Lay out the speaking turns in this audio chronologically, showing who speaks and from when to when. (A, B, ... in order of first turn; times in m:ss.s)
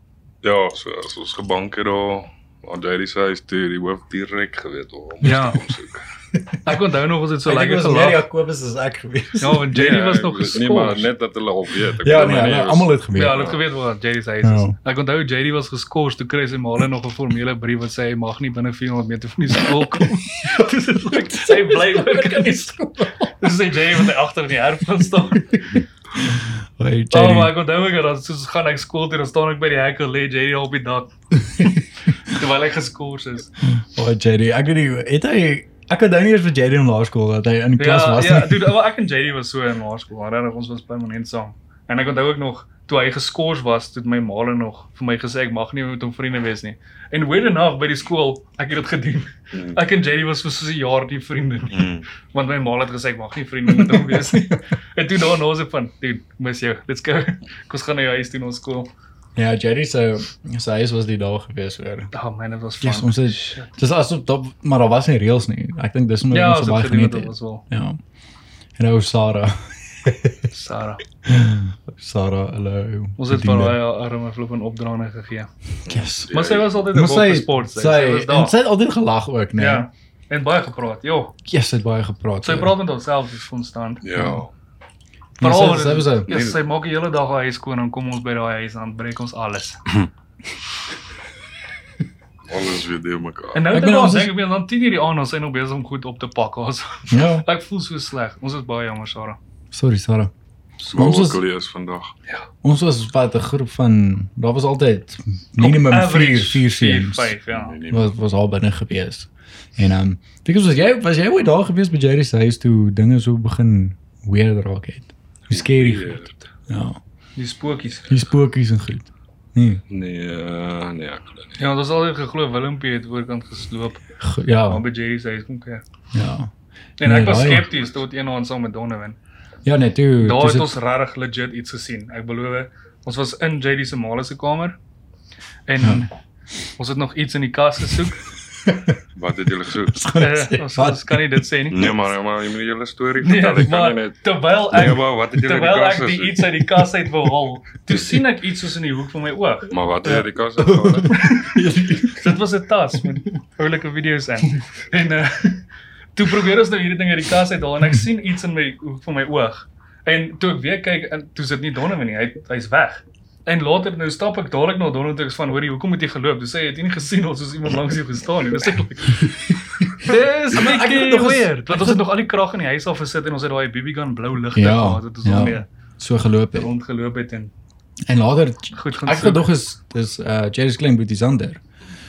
0:00.4-0:06.1 A
0:05.2-0:05.6 B
0:06.3-0:06.7 C
0:06.6-0:08.2 B
0:07.4-0:09.7 C
0:09.4-0:11.1 B
0:09.7-0:13.6 A
0:11.9-0:13.4 C
0:13.1-0:25.8 B
0:14.4-0:14.8 C
0:20.4-0:23.1 C
0:25.5-0:27.6 C
0:27.1-0:33.6 B
0:31.5-0:31.8 C
0:33.6-0:38.8 C
0:37.8-0:58.9 B
0:49.5-0:49.8 A
0:51.7-0:52.1 A
0:53.7-0:54.4 C
0:59.4-1:02.1 C
1:02.1-1:03.7 B
1:02.8-1:08.0 C
1:06.3-1:07.6 B
1:08.8-1:10.4 C
1:10.5-1:11.0 B
1:11.2-1:13.8 C
1:13.2-1:15.5 B
1:15.8-1:16.3 C
1:15.8-1:16.8 A
1:16.3-1:18.5 B
1:16.9-1:19.9 C
1:19.6-1:21.3 B
1:21.4-1:22.7 C
1:22.4-1:24.0 B
1:24.0-1:24.5 A
1:24.1-1:24.4 C
1:25.4-1:26.3 C
1:25.4-1:29.8 B
1:26.3-1:26.6 A
1:32.5-1:33.7 A
1:33.5-1:39.4 B
1:33.7-1:34.3 C
1:37.1-1:37.4 C
1:39.7-1:40.3 C
1:40.8-1:42.1 A
1:40.9-1:41.4 C
1:42.6-1:47.4 C
1:45.6-1:47.8 B
1:47.5-1:48.1 A
1:47.9-1:56.2 C
1:55.5-1:56.5 A
1:56.7-1:57.0 C
1:57.4-1:58.2 B
1:58.1-1:59.8 C
1:59.9-2:01.6 A
2:01.6-2:04.0 B
2:04.2-2:04.8 C
2:04.7-2:05.8 B
2:06.1-2:06.5 C
2:07.0-2:09.2 B
2:07.0-2:07.7 C
2:07.5-2:07.8 A
2:09.6-2:10.7 C
2:10.2-2:14.8 B
2:15.7-2:16.1 B
2:15.8-2:16.1 C
2:16.8-2:18.2 B
2:18.6-2:19.0 C
2:19.1-2:20.0 A
2:19.8-2:21.4 C
2:20.2-2:22.0 B
2:21.7-2:26.8 A
2:23.2-2:30.1 B
2:27.9-2:28.2 A
2:29.7-2:31.4 A
2:30.6-2:32.4 C
2:32.1-2:35.6 B
2:36.1-2:55.6 B
2:49.2-2:52.0 C
2:54.5-2:56.7 C
2:56.5-2:57.5 B
2:58.1-3:01.6 C
2:58.7-2:59.5 B